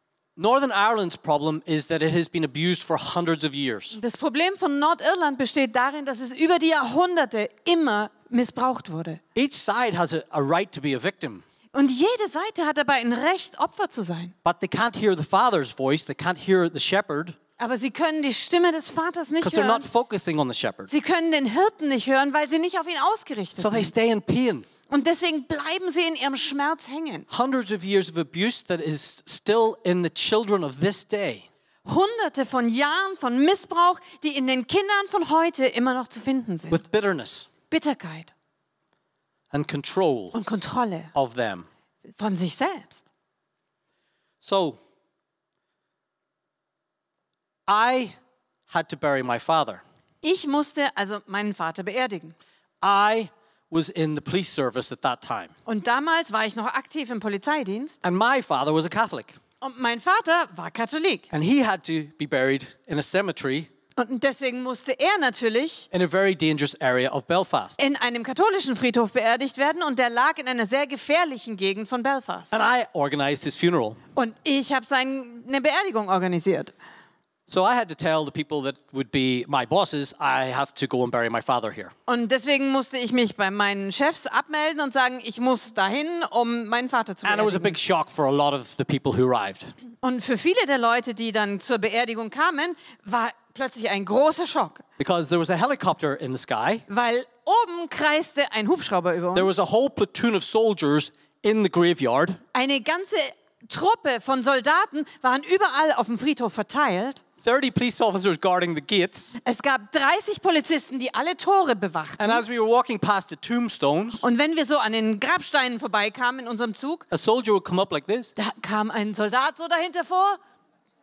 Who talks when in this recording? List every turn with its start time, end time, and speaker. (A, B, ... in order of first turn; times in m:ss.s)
0:00.4-0:04.0 A
0:03.9-0:09.2 B
0:09.4-0:11.4 A
0:11.7-0:14.3 B
0:14.4-0:17.4 A
0:17.6-0:19.9 B
0:19.4-0:20.9 A
0:20.9-0:23.9 B
0:23.6-0:24.7 A
0:24.9-0:27.3 B
0:27.3-0:31.5 A
0:31.8-0:36.8 B
0:36.7-0:37.5 A
0:37.7-0:38.3 B
0:39.5-0:40.4 A
0:40.3-0:41.1 B
0:41.1-0:41.7 A
0:42.2-0:43.0 B
0:44.4-0:44.8 A
0:47.7-0:48.2 A
0:48.7-0:49.8 A
0:50.2-0:52.4 B
0:52.8-0:55.5 A
0:55.7-0:58.0 B
0:58.0-0:59.4 A
0:59.6-1:01.3 B
1:01.3-1:03.7 A
1:04.0-1:05.9 B
1:05.9-1:07.8 A
1:07.8-1:12.5 B
1:12.5-1:14.0 A
1:14.2-1:16.7 B
1:17.5-1:21.9 A
1:22.1-1:27.8 B
1:27.2-1:29.7 A
1:30.0-1:34.8 B
1:35.0-1:36.8 A
1:36.9-1:39.5 B
1:39.3-1:42.4 A
1:42.5-1:47.2 B
1:47.4-1:49.4 A
1:49.4-1:52.4 B
1:52.2-1:54.2 A
1:54.2-1:57.1 B
1:57.1-1:58.3 A
1:58.4-2:00.4 B